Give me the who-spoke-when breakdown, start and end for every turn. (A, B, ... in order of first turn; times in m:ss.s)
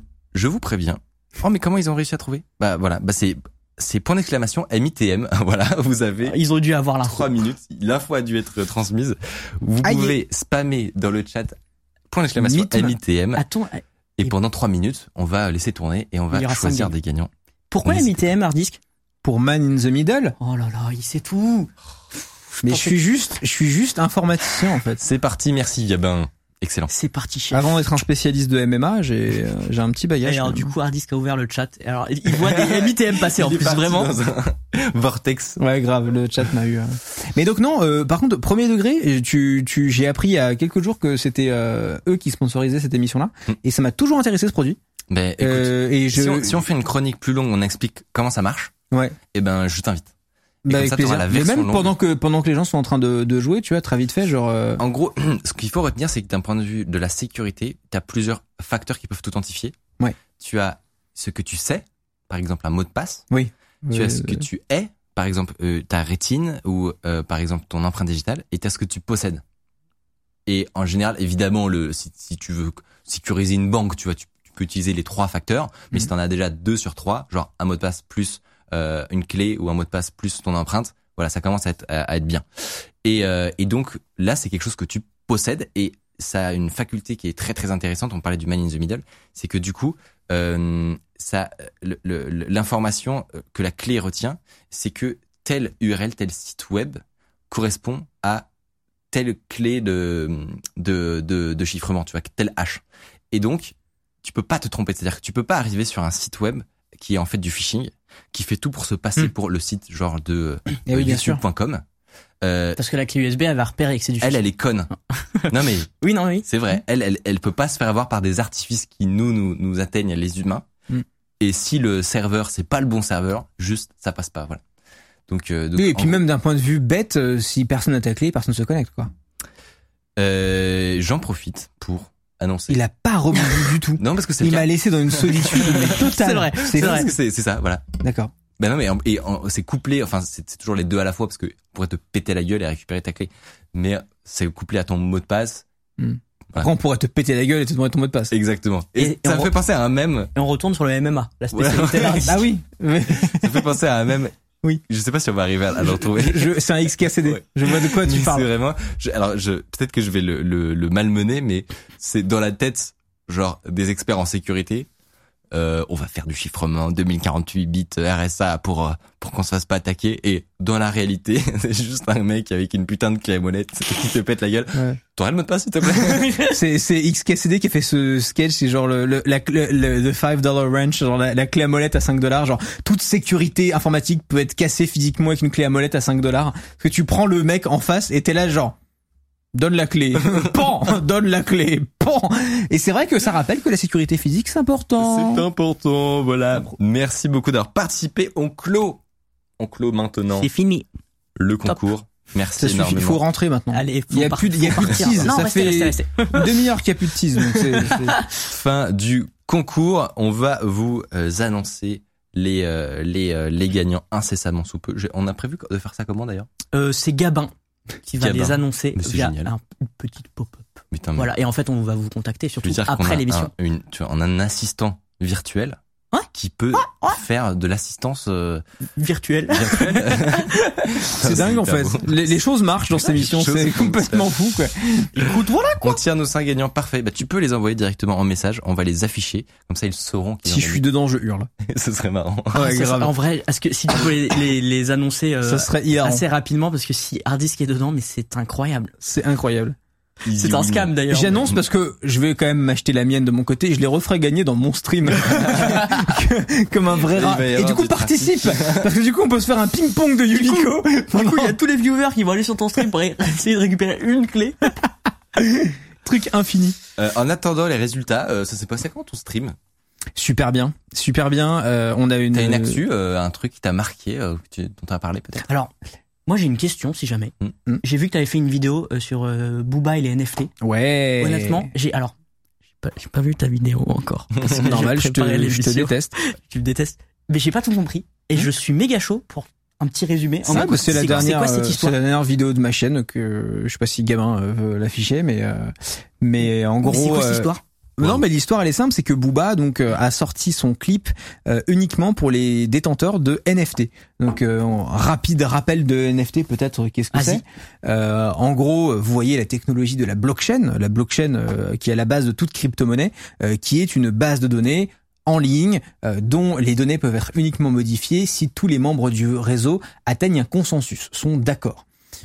0:00.3-0:06.4 A
0:06.2-0:07.3 B
0:07.0-0:11.6 A
0:09.8-0:10.2 C
0:12.1-0:13.4 A
0:12.4-0:13.0 C
0:13.4-0:14.3 B
0:14.2-0:17.3 A
0:16.3-0:16.9 B
0:17.7-0:18.8 B
0:17.8-0:18.3 A
0:19.2-0:20.4 C
0:20.4-0:21.7 B
0:22.5-0:23.0 B
0:22.6-0:25.0 C
0:25.0-0:26.9 A
0:26.9-0:27.6 B
0:27.5-0:30.7 C
0:30.2-0:34.1 B
0:32.3-0:35.6 A
0:35.6-0:44.8 C
0:45.1-0:48.7 A
0:45.4-0:46.6 C
0:49.3-0:50.1 A
0:50.6-0:54.8 C
0:50.7-0:51.9 A
0:54.8-0:59.8 A
1:00.4-1:03.3 A
1:03.3-1:04.4 C
1:03.9-1:09.4 A
1:10.5-1:38.5 A
1:39.1-1:51.8 A
1:50.9-1:51.4 C
1:52.4-1:52.8 A
1:52.8-1:54.5 B
1:54.2-1:54.9 A
1:55.3-1:56.5 B
1:55.5-1:55.9 A
1:56.4-2:00.7 A
2:01.4-2:04.6 A
2:05.3-2:06.2 A
2:05.8-2:09.1 C
2:10.2-2:12.8 A
2:12.7-2:17.1 C
2:14.0-2:16.1 A
2:15.9-2:17.1 B
2:16.7-2:17.8 A
2:18.0-2:18.3 C
2:18.6-2:25.6 A
2:26.0-2:28.3 C
2:28.3-2:30.3 A
2:29.0-2:29.5 B
2:30.4-2:32.4 B
2:31.5-2:32.3 A
2:32.2-2:33.7 C
2:33.2-2:34.4 A
2:34.9-2:36.6 A
2:35.8-2:38.5 C
2:37.1-2:44.9 A
2:45.5-2:56.5 A
2:54.7-2:55.0 C
2:56.5-3:08.8 C
3:09.5-3:15.5 C
3:15.0-3:19.0 A
3:19.6-3:20.5 A
3:20.4-3:20.9 B
3:21.4-3:23.2 A
3:22.6-3:28.2 C
3:23.7-3:26.5 B
3:27.4-3:28.3 B
3:28.5-3:36.5 A
3:36.7-3:37.5 B
3:38.0-3:43.5 B
3:38.2-3:39.5 A
3:40.9-3:41.3 A
3:42.6-3:45.8 A
3:46.1-3:47.2 B
3:46.3-3:48.6 A
3:49.0-3:50.6 B
3:49.5-3:52.2 A
3:51.2-3:56.0 C
3:53.0-3:54.3 A
3:55.2-4:00.8 A
4:00.4-4:01.5 C
4:01.6-4:02.7 A
4:02.5-4:03.1 C
4:02.6-4:08.9 B
4:05.4-4:06.2 C
4:09.0-4:09.8 C
4:10.2-4:10.9 A
4:10.4-4:11.5 B
4:11.1-4:21.6 C
4:17.0-4:18.9 A
4:20.3-4:24.7 B
4:25.4-4:26.8 C
4:27.0-4:29.6 A
4:30.2-4:32.8 C
4:32.3-4:35.4 A
4:35.5-4:35.7 B
4:36.3-4:37.3 B
4:37.8-4:40.5 B
4:40.6-4:41.7 C
4:41.2-4:42.1 B
4:42.8-4:52.0 B
4:44.5-4:46.1 C
4:50.5-5:21.8 C
4:50.5-4:51.3 A
4:56.8-4:57.6 B
5:07.1-5:07.4 B